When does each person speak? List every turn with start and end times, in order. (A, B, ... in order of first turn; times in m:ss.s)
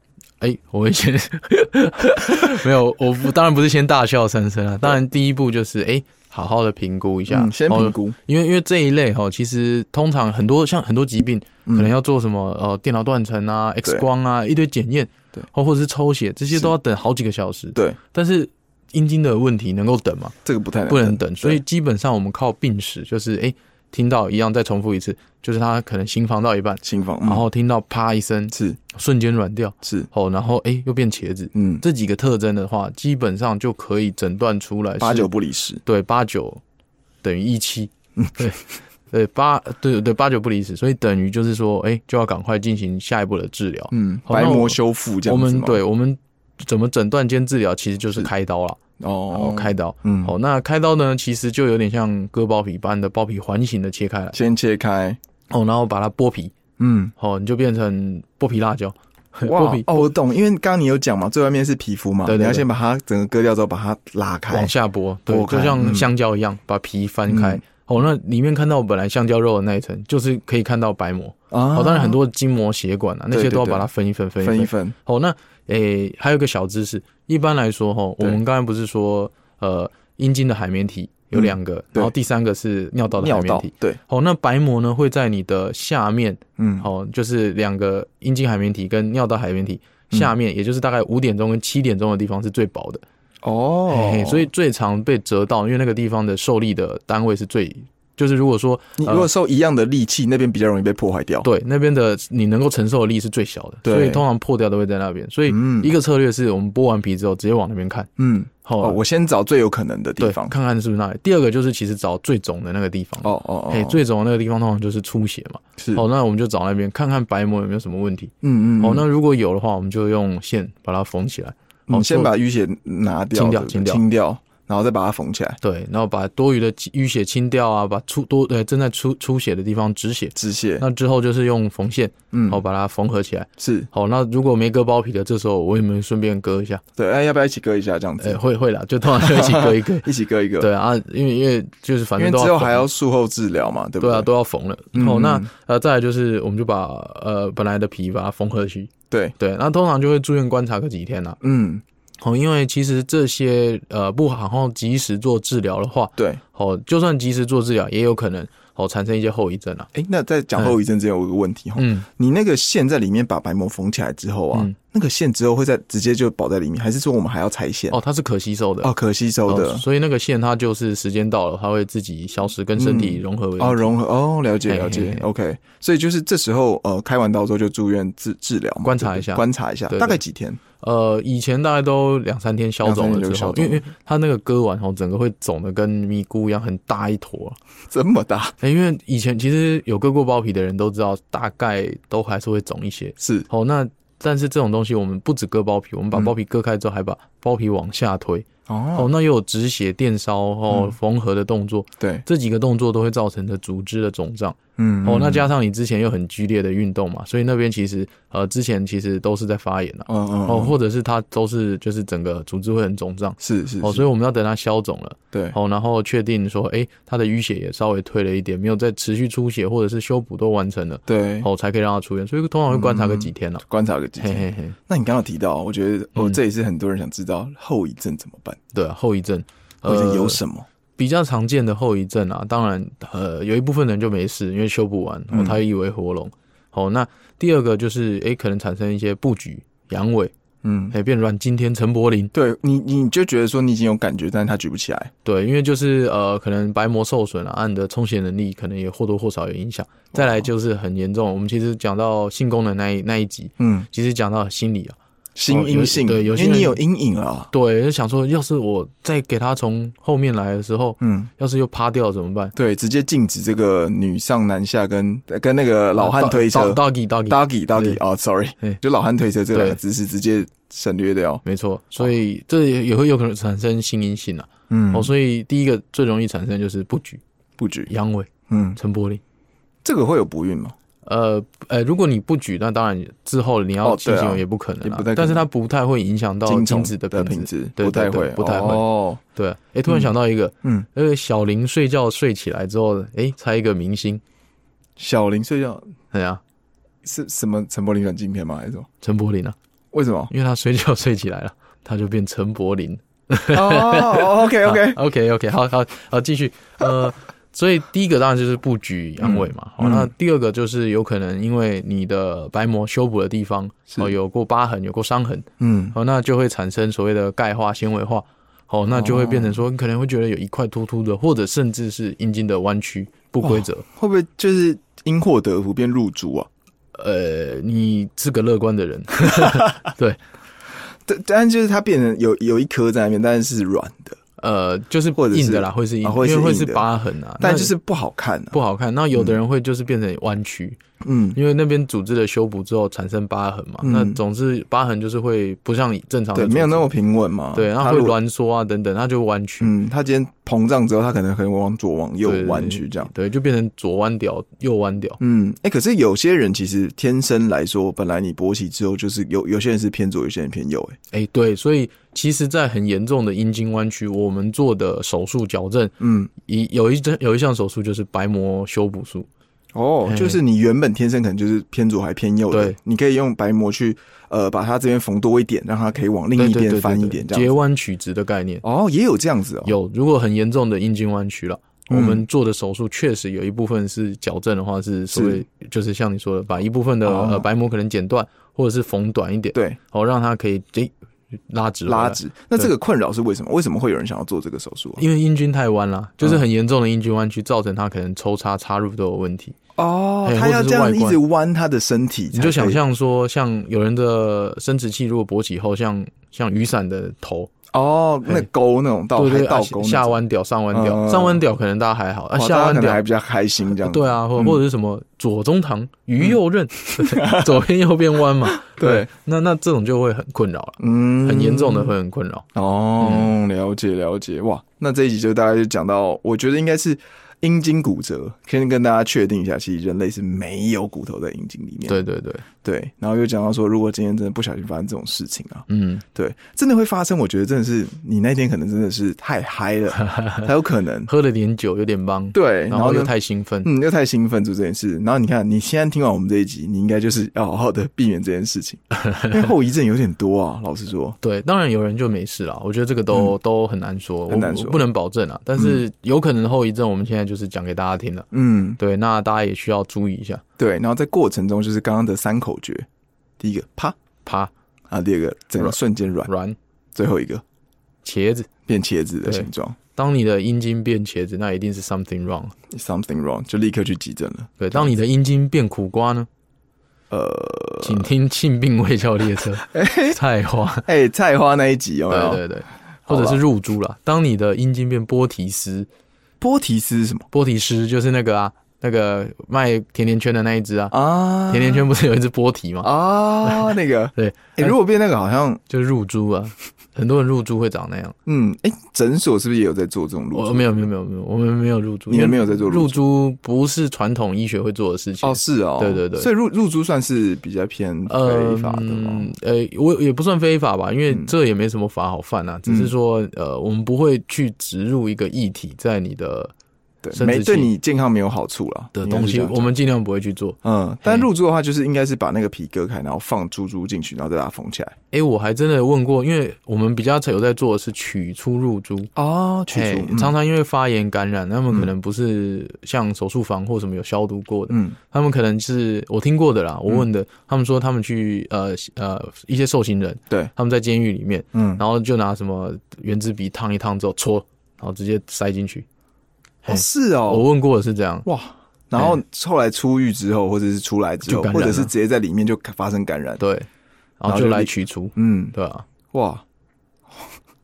0:00.4-0:20.4 A
0:07.3-0:08.2 B
0:11.7-0:11.9 B
0:20.4-0:21.6 B
0:20.9-0:35.3 A
0:26.8-0:27.4 B
0:28.5-0:28.8 B
0:29.8-0:30.1 B
0:31.5-0:31.8 B
0:35.0-0:35.8 B
0:35.8-0:36.6 A
0:37.2-0:48.8 A
0:43.9-0:45.8 B
0:49.0-0:50.3 B
0:49.3-0:54.4 A
0:54.3-0:55.2 B
0:55.5-0:56.6 A
0:56.8-0:57.1 B
0:57.2-1:00.1 A
0:59.4-1:04.7 B
1:02.3-1:02.6 A
1:04.5-1:33.0 A
1:05.3-1:06.1 B
1:07.3-1:07.6 B
1:11.5-1:12.2 B
1:13.3-1:13.9 B
1:14.4-1:15.0 B
1:21.3-1:22.1 B
1:23.1-1:24.0 B
1:26.6-1:26.9 B
1:33.4-1:34.5 B
1:33.9-1:39.3 A
1:39.0-1:41.5 B
1:41.4-1:48.1 A
1:43.8-1:44.2 B
1:45.5-1:45.9 B
1:48.2-1:50.5 B
1:48.6-1:49.0 A
1:50.2-2:02.3 A
1:53.2-1:54.0 B
1:55.8-1:56.0 B
1:58.4-1:59.0 B
2:01.9-2:05.6 B
2:03.3-2:04.0 A
2:05.6-2:16.8 A
2:10.4-2:10.8 B
2:12.3-2:12.6 B
2:13.6-2:13.9 B
2:17.0-2:18.4 B
2:18.2-2:20.1 A
2:19.1-2:20.7 B
2:20.6-2:22.8 A
2:22.2-2:24.3 B
2:24.0-2:31.4 A
2:24.9-2:25.5 B
2:31.4-2:31.8 B
2:32.2-2:39.9 A
2:39.9-2:48.0 B
2:41.8-2:42.1 A
2:47.9-2:48.9 A
2:48.8-2:49.8 B
2:49.5-2:53.9 A
2:52.8-3:00.6 B
2:54.7-2:55.3 A
2:58.8-3:00.2 A
3:00.8-3:07.6 A
3:02.8-3:03.9 B
3:07.9-3:08.6 B
3:08.6-3:43.6 A
3:13.2-3:13.5 B
3:18.7-3:19.1 B
3:20.7-3:21.0 B
3:24.8-3:25.5 B
3:30.1-3:30.8 B
3:33.4-3:34.1 B
3:41.1-3:41.5 B
3:42.7-3:48.6 B
3:44.2-3:44.8 A
3:48.7-3:50.4 A
3:49.8-3:50.7 B
3:51.0-4:00.3 A
3:55.3-3:55.6 B
4:00.6-4:01.0 B
4:00.9-4:02.3 A
4:02.3-4:05.1 B
4:05.2-4:15.0 A
4:10.1-4:10.5 B
4:13.6-4:13.9 B
4:15.4-4:17.5 B
4:15.5-4:16.8 A
4:17.5-4:22.5 A
4:21.0-4:21.3 B
4:22.6-4:31.4 B
4:26.0-4:28.0 A
4:29.5-4:29.8 A
4:31.4-4:37.2 A
4:34.7-4:35.1 B
4:37.6-4:37.9 B
4:37.9-4:39.2 A
4:38.5-4:38.8 B
4:39.8-4:40.8 B
4:41.0-4:54.2 A
4:43.8-4:45.5 B
4:46.5-4:49.2 B
4:55.0-4:55.9 B
4:56.1-4:56.4 A
4:57.0-4:58.9 B
4:59.0-4:59.6 A
4:59.9-5:00.3 B
5:00.3-5:23.8 A
5:03.5-5:05.0 B
5:09.2-5:10.1 B
5:15.6-5:16.0 B
5:18.9-5:19.6 B
5:23.4-5:26.5 B
5:26.9-5:30.2 A
5:29.4-5:29.7 B
5:31.0-5:34.2 B
5:34.4-5:37.7 A
5:35.2-5:36.9 B
5:37.4-5:38.6 B
5:38.5-5:40.8 A
5:41.0-5:41.4 B
5:41.4-5:46.9 A
5:43.8-5:44.2 B
5:46.4-5:48.2 B
5:47.5-5:49.7 A
5:49.6-5:53.1 B
5:52.2-5:55.2 A
5:55.2-6:01.0 B
6:01.1-6:09.3 A
6:06.0-6:06.3 B
6:09.7-6:17.6 B
6:10.1-6:10.4 A
6:12.5-6:12.8 A
6:16.4-6:18.6 A
6:18.6-6:19.8 B
6:19.6-6:30.9 A
6:21.9-6:22.2 B
6:25.1-6:25.4 B
6:27.0-6:27.5 B
6:31.5-6:32.7 A
6:31.9-6:35.0 B
6:35.0-6:39.6 A
6:39.8-6:42.8 B
6:40.2-6:41.2 A
6:42.3-6:47.5 A
6:47.7-6:50.2 B
6:49.2-6:53.0 A
6:50.7-6:51.4 B
6:52.3-6:54.6 B
6:53.8-7:02.5 A
6:57.0-6:57.6 B
6:58.5-6:59.1 B
7:00.8-7:01.9 B
7:02.6-7:12.0 B
7:03.0-7:03.3 A
7:11.9-7:12.4 A
7:12.6-7:21.1 B
7:15.7-7:16.0 A
7:20.0-7:20.5 A
7:21.1-7:23.7 A
7:22.3-7:23.1 B
7:23.6-7:31.2 B
7:28.9-7:29.5 A
7:31.2-7:38.3 A
7:34.3-7:34.8 B
7:35.6-7:35.8 B
7:38.3-7:38.8 B
7:38.8-7:40.4 A
7:40.6-7:42.9 B
7:43.4-7:44.0 B
7:44.2-7:44.5 A
7:44.9-7:46.3 B
7:45.6-7:46.6 A
7:47.0-7:47.4 B
7:48.0-7:48.5 A
7:48.7-7:49.8 B
7:49.2-7:52.6 A
7:52.7-7:55.0 B
7:54.6-7:56.3 A
7:57.1-7:58.1 B
7:57.8-8:00.9 A
7:59.7-8:00.2 B
8:00.8-8:02.4 B
8:02.1-8:05.9 A
8:03.1-8:03.4 B
8:06.4-8:07.3 B
8:07.3-8:12.9 A
8:10.9-8:11.8 B
8:12.8-8:15.6 B
8:13.4-8:14.7 A
8:15.7-8:18.2 A
8:18.3-8:20.8 B
8:20.3-8:26.3 A
8:22.1-8:23.0 B
8:25.2-8:29.3 B
8:28.1-8:36.5 A
8:32.7-8:32.9 B
8:37.0-8:39.7 B
8:37.1-8:37.7 A
8:39.0-8:41.3 A
8:40.6-8:44.9 B
8:45.1-8:49.1 A
8:49.2-8:50.4 B
8:49.7-9:05.9 A
8:54.7-8:55.0 B
9:01.5-9:01.8 B
9:06.6-9:08.3 A
9:06.7-9:07.5 B
9:08.2-9:13.4 B
9:11.3-9:11.9 A
9:13.4-9:13.7 A
9:14.2-9:15.9 A
9:14.3-9:15.5 B
9:16.1-9:16.4 B